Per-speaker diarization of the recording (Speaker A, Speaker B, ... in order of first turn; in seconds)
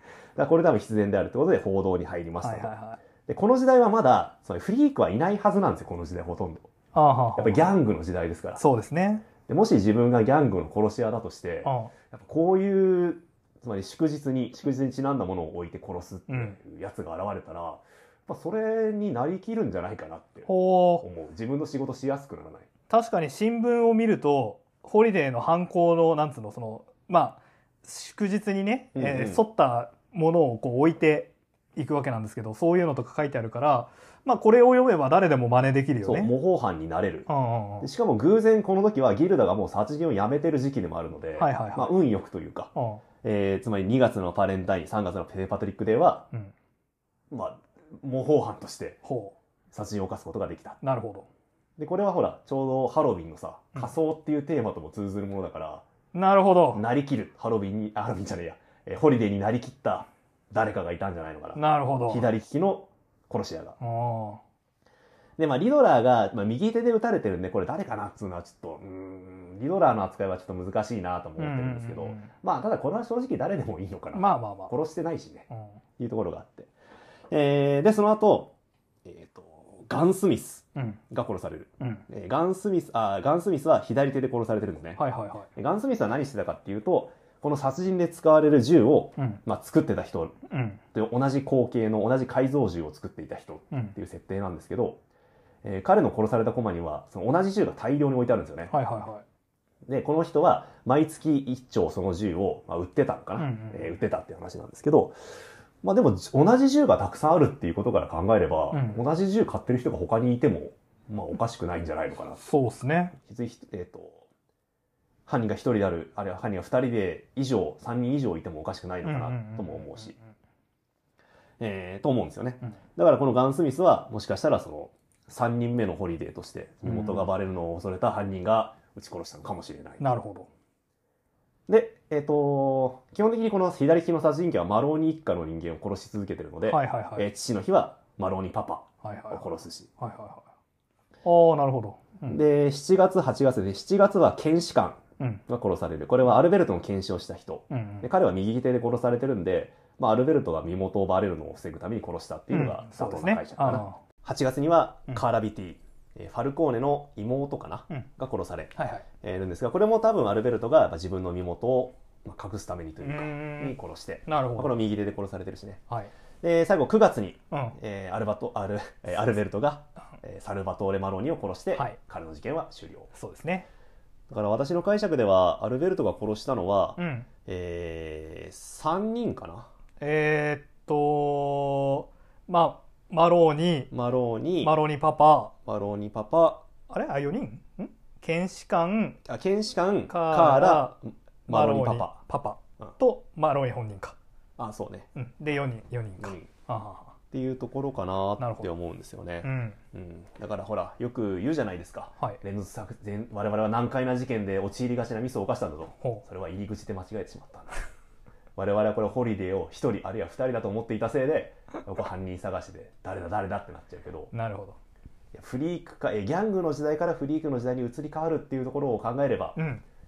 Speaker A: 0.3-2.7, 3.2-6.7, 7.3-8.6, 9.4-20.5, 21.0-22.7, 28.9-29.4, 36.0-37.3, 37.8-46.2, 47.3-49.0, 49.7-50.8, 51.8-55.8, 56.7-63.8, 65.4-75.5, 76.0-76.7, 77.3-78.5, 79.0-85.0, 85.5-90.3, 90.9-95.0, 95.6-98.7, 99.8-105.2, 105.8-112.4, 113.2-114.2, 115.3-120.2, 121.6-130.0, 131.7-139.9, 142.3-165.8, 166.4-173.1, 174.3-179.7, 183.9-184.8, 185.7-186.6, 189.2-192.2, 194.6-195.1, 196.2-196.5, 197.3-207.7, 208.6-214.3, 215.3-219.6
Speaker B: 2.4-3.0, 6.9-7.7, 8.6-9.2, 11.6-11.9, 16.3-16.6, 20.5-21.0, 22.9-36.3, 37.3-37.9, 41.4-41.9, 42.7-43.0, 49.0-49.3, 50.8-51.3, 56.1-56.8, 61.5-62.3, 63.8-64.4, 71.4-72.3, 74.1-74.7, 75.5-75.8, 81.8-82.0, 85.0-85.5, 90.5-90.8, 98.7-99.2, 103.4-103.9, 108.7-109.0, 112.4-113.2, 119.0-120.1, 126.8-127.3, 130.0-130.5, 136.7-137.3, 139.0-139.5, 140.0-140.5, 141.2-142.4, 147.7-148.1, 152.5-154.0, 158.7-159.0, 163.0-163.8, 164.3-164.7, 167.5-167.8, 173.1-173.7, 177.0-177.3, 180.0-183.9, 184.6-185.5, 186.9-189.2, 190.1-191.0, 191.5-194.2, 195.1-197.1, 198.4-198.7, 199.4-199.8, 214.3-214.8, 219.6-219.8